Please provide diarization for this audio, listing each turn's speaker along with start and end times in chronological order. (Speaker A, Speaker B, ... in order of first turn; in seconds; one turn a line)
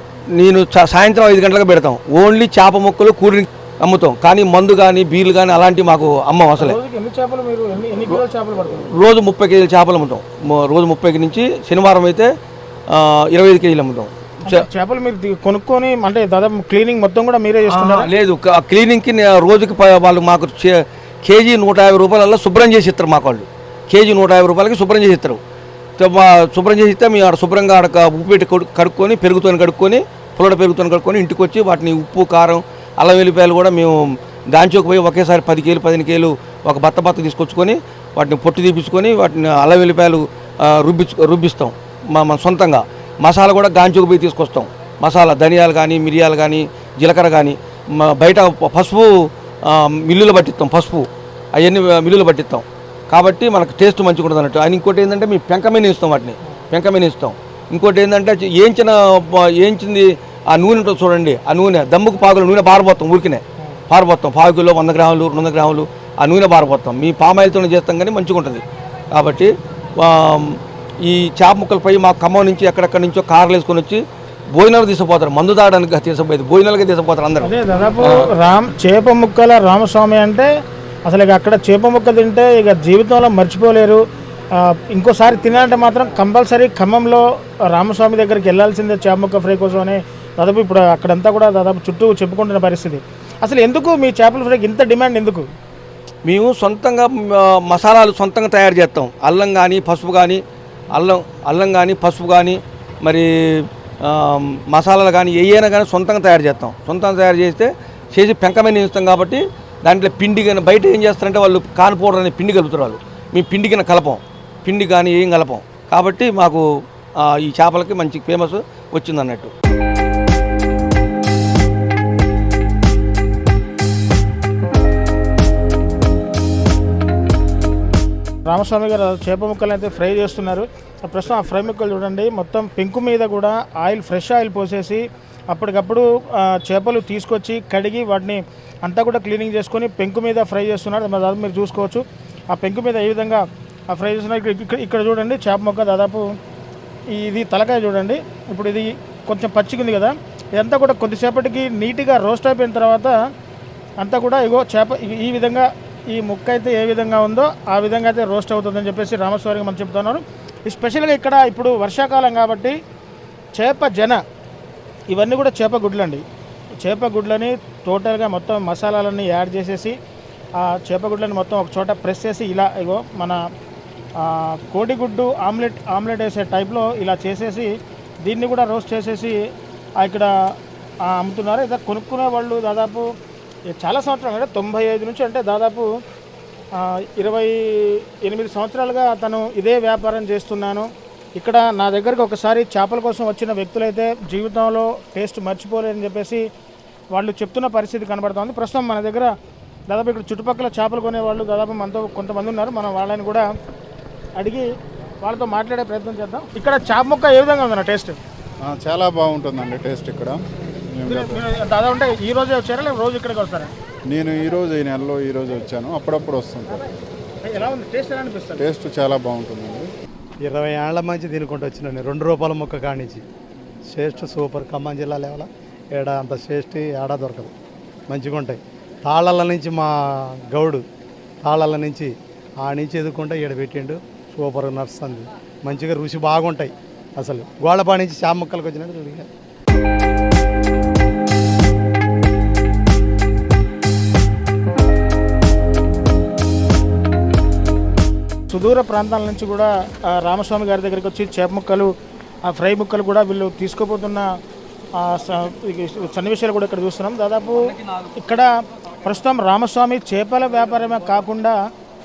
Speaker A: 0.3-6.8
Speaker B: 6.6-8.9
Speaker A: 8.9-12.3
Speaker A: 12.9-14.7
Speaker B: 14.4-18.1
Speaker A: 17.7-25.4
Speaker A: 26.0-34.0
Speaker A: 34.5-49.1
Speaker A: 49.6-74.0
Speaker A: 74.5-77.5
Speaker B: 77.4-80.5
Speaker B: 81.0-84.0
Speaker B: 84.6-95.4
Speaker A: 96.2-100.4
Speaker A: 100.9-116.6
Speaker A: 117.2-119.5
Speaker B: 128.5-146.2
Speaker B: 147.1-153.1
Speaker B: 154.0-162.7
Speaker B: 163.5-164.2
Speaker B: 165.1-166.2
Speaker B: 166.8-169.9
Speaker B: 170.6-173.4
Speaker B: 174.2-177.7
Speaker B: 178.2-179.4
Speaker B: 180.0-180.3
Speaker B: 181.0-183.1
Speaker B: 183.7-185.9
Speaker B: 186.8-196.4
Speaker B: 197.1-199.3
Speaker B: 199.9-203.4
Speaker B: 204.4-204.7
Speaker B: 205.2-208.2
Speaker C: 208.6-210.4
Speaker C: 210.9-211.4
Speaker B: 211.1-213.7
Speaker C: 214.1-216.8
Speaker B: 217.4-218.6
Speaker C: 218.6-219.9
Speaker D: 220.4-223.2
Speaker D: 223.9-227.5
Speaker D: 228.1-229.9
Speaker D: 230.5-230.8
Speaker D: 231.4-239.3
Speaker B: 248.5-251.9
Speaker B: 252.4-254.3
Speaker B: 254.9-261.5